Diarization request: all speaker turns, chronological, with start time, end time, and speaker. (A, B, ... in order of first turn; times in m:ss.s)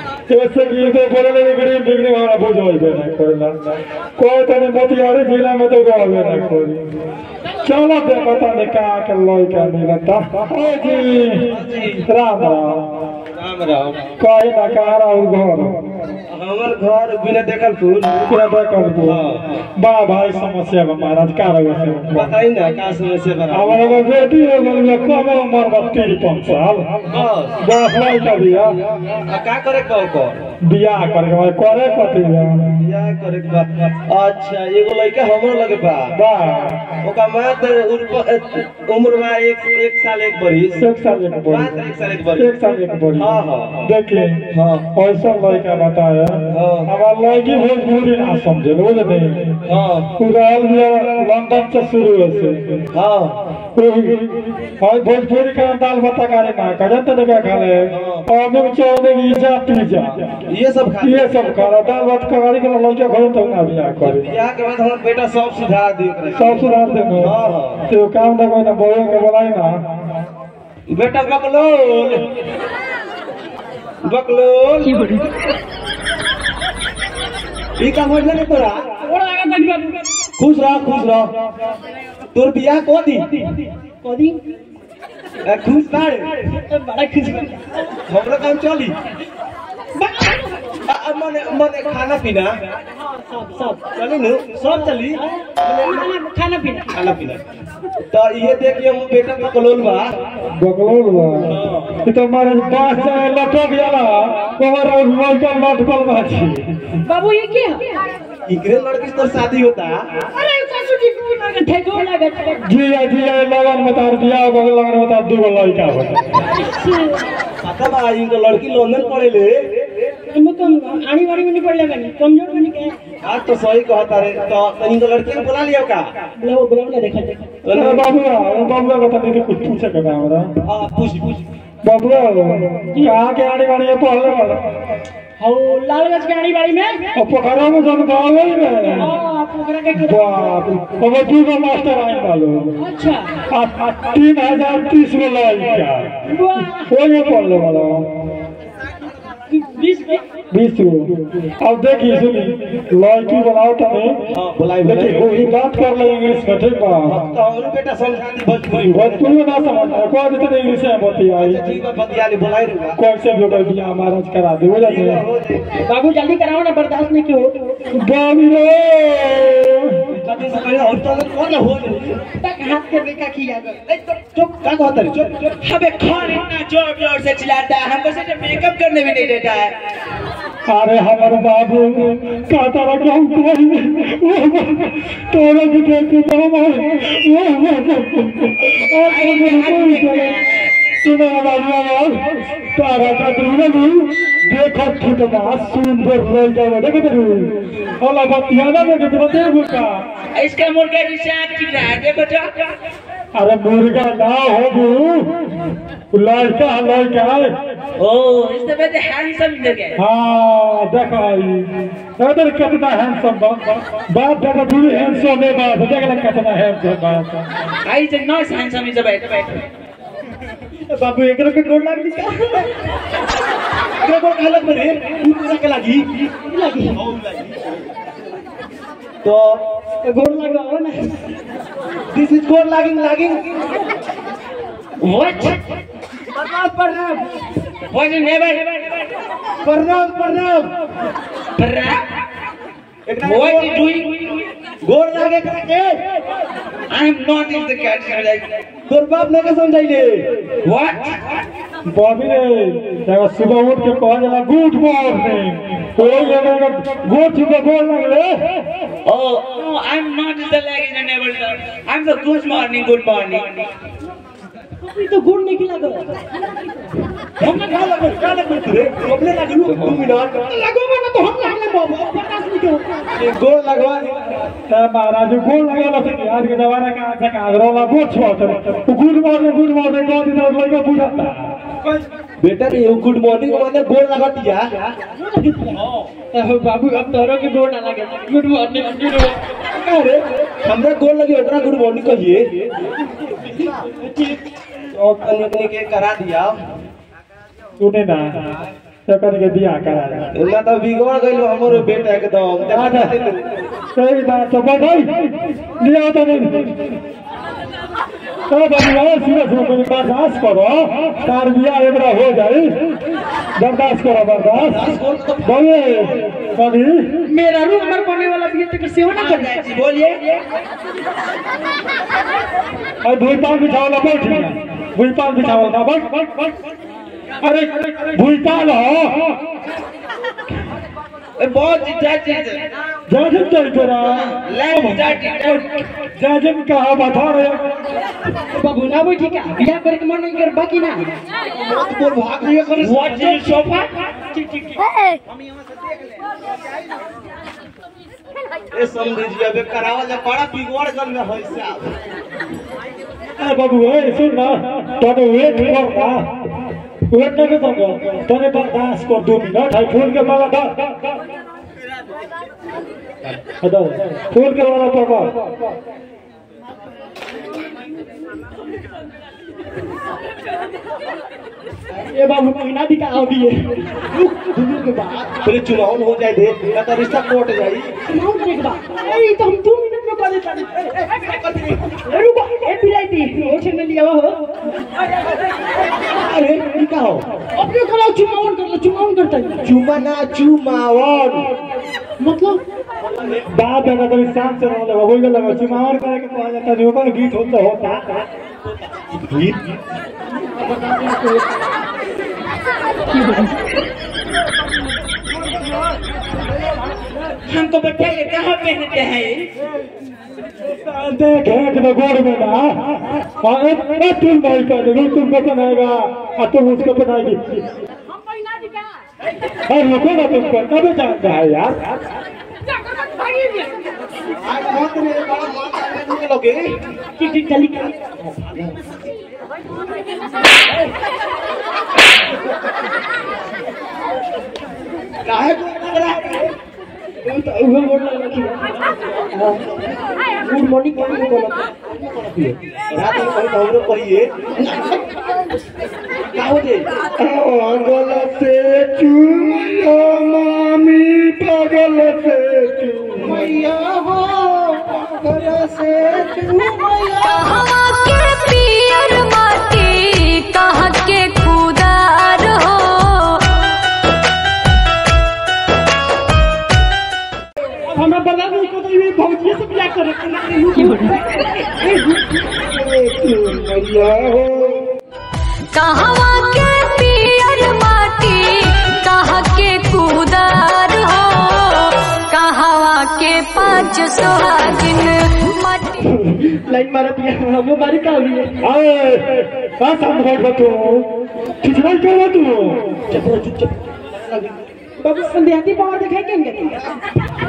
0:00.3-0:06.8 A
0:07.6-0:12.8 A
0:11.4-0:12.0 B
0:13.3-0:14.1 B
0:14.2-0:15.8 A
0:16.3-0:18.3 B
0:18.3-0:19.2 A
0:19.0-0:19.4 B
0:19.8-0:22.3 A
0:22.1-0:24.0 B
0:23.5-0:26.9 A
0:27.1-0:27.6 B
0:27.6-0:28.7 A
0:29.2-0:30.4 B
0:30.6-0:32.6 A
0:32.8-0:36.1 B
0:36.1-0:36.8 A
0:37.0-0:40.8 B
0:40.8-0:41.8 A
0:41.5-0:42.5 B
0:42.4-0:49.6 A
0:43.1-0:43.8 B
0:44.5-0:44.9 B
0:46.5-0:46.9 B
0:49.6-0:50.1 B
0:50.2-0:52.8 A
0:52.9-0:53.4 B
0:53.8-1:00.3 A
0:57.9-0:58.2 B
1:00.4-1:01.3 B
1:01.0-1:04.3 A
1:04.0-1:07.8 B
1:06.4-1:07.3 A
1:07.9-1:09.8 A
1:10.9-1:12.3 B
1:14.0-1:15.2 B
1:17.8-1:18.8 B
1:19.0-1:20.0 C
1:20.4-1:21.3 B
1:22.3-1:23.2 B
1:23.2-1:24.4 C
1:25.4-1:26.3 B
1:26.4-1:27.6 C
1:28.1-1:29.0 B
1:30.0-1:30.6 C
1:30.8-1:32.6 B
1:33.2-1:33.8 C
1:34.0-1:36.0 B
1:34.6-1:36.9 C
1:36.9-1:37.4 B
1:38.1-1:40.2 B
1:40.6-1:46.8 A
1:41.5-1:41.9 B
1:47.0-1:47.9 C
1:48.4-1:50.0 B
1:50.3-1:52.6 C
1:52.6-1:56.4 A
1:56.5-1:57.2 C
1:57.6-1:59.6 B
2:00.3-2:02.9 C
2:03.2-2:06.1 B
2:06.4-2:07.4 C
2:07.6-2:08.1 B
2:07.7-2:10.5 A
2:10.6-2:11.4 B
2:11.8-2:14.6 A
2:12.9-2:13.2 C
2:15.4-2:17.0 C
2:17.2-2:19.1 A
2:18.8-2:20.7 C
2:20.0-2:22.7 A
2:22.8-2:23.3 C
2:23.5-2:26.1 A
2:26.2-2:26.9 C
2:26.9-2:28.1 A
2:29.5-2:30.2 C
2:30.5-2:34.2 A
2:34.3-2:35.4 B
2:34.8-2:37.2 A
2:37.0-2:39.3 B
2:38.8-2:41.6 A
2:41.3-2:43.0 B
2:43.0-2:45.2 A
2:44.8-2:45.6 B
2:45.8-2:47.6 C
2:47.9-2:50.0 A
2:50.1-2:52.2 B
2:52.4-2:54.2 C
2:54.3-2:55.5 B
2:55.6-2:59.7 D
3:00.7-3:10.3 A
3:09.0-3:10.7 D
3:11.0-3:20.0 A
3:20.3-3:22.5 D
3:23.3-3:25.4 A
3:26.1-3:27.5 A
3:28.0-3:30.0 D
3:30.0-3:37.5 A
3:37.8-3:39.6 D
3:40.8-3:42.7 C
3:44.0-3:46.1 B
3:46.4-3:47.0 C
3:49.2-3:49.6 B
3:50.0-3:51.2 C
3:52.1-3:53.4 B
3:55.0-3:55.6 D
3:56.4-3:57.2 C
3:57.9-3:58.7 D
3:59.6-4:00.7 B
4:01.6-4:02.0 D
4:03.0-4:03.8 B
4:03.2-4:04.1 D
4:04.8-4:06.0 B
4:06.9-4:08.4 D
4:08.8-4:10.2 B
4:10.6-4:11.1 D
4:11.9-4:18.5 A
4:19.0-4:23.7 D
4:24.8-4:26.1 C
4:27.4-4:30.4 B
4:30.4-4:32.8 C
4:33.2-4:34.2 B
4:34.7-4:41.5 A
4:41.8-4:44.9 B
4:45.2-4:49.4 C
4:49.7-4:52.5 B
4:54.0-4:54.3 C
4:54.9-4:56.5 B
4:57.8-4:58.3 A
4:59.1-5:00.3 A
5:00.3-5:03.4 B
5:02.7-5:03.1 A
5:03.9-5:06.7 A
5:08.5-5:12.8 A
5:13.6-5:14.9 A
5:14.6-5:15.6 B
5:15.4-5:17.1 A
5:17.2-5:19.8 C
5:19.2-5:20.2 D
5:23.0-5:26.3 A
5:27.4-5:29.4 A
5:31.4-5:32.6 D
5:33.1-5:37.7 A
5:34.0-5:35.6 D
5:38.5-5:41.1 C
5:41.5-5:43.6 B
5:42.8-5:43.9 D
5:44.3-5:44.9 C
5:48.7-5:51.9 B
5:53.4-5:56.3 A
5:57.1-6:00.9 A
6:03.6-6:05.4 A
6:12.0-6:13.8 C
6:14.0-6:17.9 B
6:18.1-6:21.2 C
6:21.2-6:21.8 B
6:21.9-6:24.4 C
6:26.1-6:27.2 B
6:27.6-6:29.6 C
6:29.6-6:31.5 B
6:32.2-6:32.6 C
6:33.5-6:38.2 A
6:39.0-6:39.6 B
6:47.4-6:49.5 D
6:50.8-6:57.6 A
6:58.1-6:58.9 C
6:59.7-7:01.9 A
7:03.0-7:03.7 C
7:04.4-7:06.7 B
7:07.2-7:08.0 C
7:08.2-7:08.7 B
7:15.2-7:16.5 B
7:17.2-7:18.6 C
7:19.3-7:19.6 C
7:20.4-7:21.7 C
7:21.9-7:24.3 B
7:26.3-7:26.9 B
7:27.2-7:33.5 A
7:33.2-7:37.2 B
7:37.3-7:43.5 E
7:47.9-7:51.6 C
7:53.6-7:53.8 B
7:55.7-8:05.9 E
8:06.0-8:08.6 C
8:08.6-8:12.9 A
8:13.1-8:14.6 B
8:15.0-8:16.8 C